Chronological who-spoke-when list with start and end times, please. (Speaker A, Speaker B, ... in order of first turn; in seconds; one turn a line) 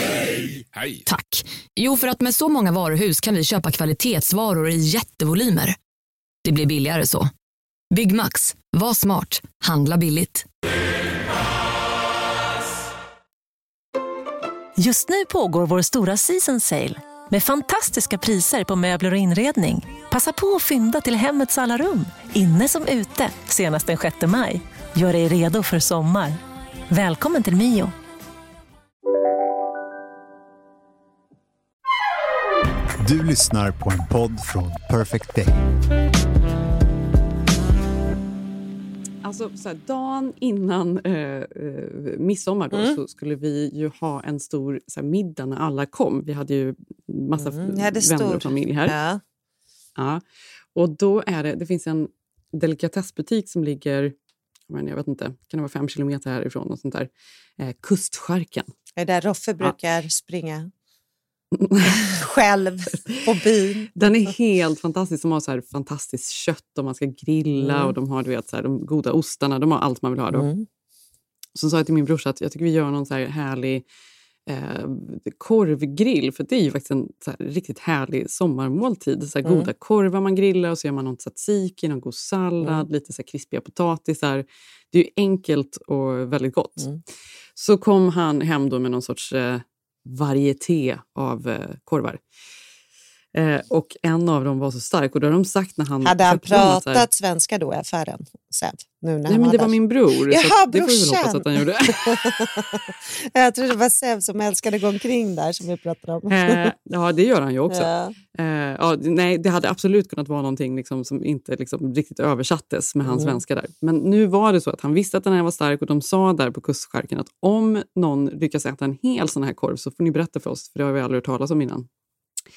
Speaker A: 1.1-5.8
Speaker A: 6.4-7.3
Speaker A: 7.9-10.5
Speaker B: 14.8-26.4
Speaker B: 26.9-27.9
Speaker C: 33.0-35.5
Speaker D: 39.2-49.0
Speaker E: 42.7-43.0
Speaker E: 47.4-49.2
Speaker D: 50.0-50.2
Speaker D: 50.7-54.1
Speaker D: 54.7-58.7
Speaker E: 59.0-60.7
Speaker D: 61.5-62.0
Speaker E: 61.9-63.9
Speaker D: 63.9-70.5
Speaker E: 67.6-67.9
Speaker E: 70.3-70.7
Speaker D: 71.5-73.8
Speaker D: 74.5-86.8
Speaker D: 87.5-92.2
Speaker D: 93.3-97.0
Speaker E: 96.0-99.7
Speaker D: 99.3-102.3
Speaker E: 100.3-106.7
Speaker D: 106.3-121.9
Speaker E: 107.7-108.2
Speaker E: 113.0-113.4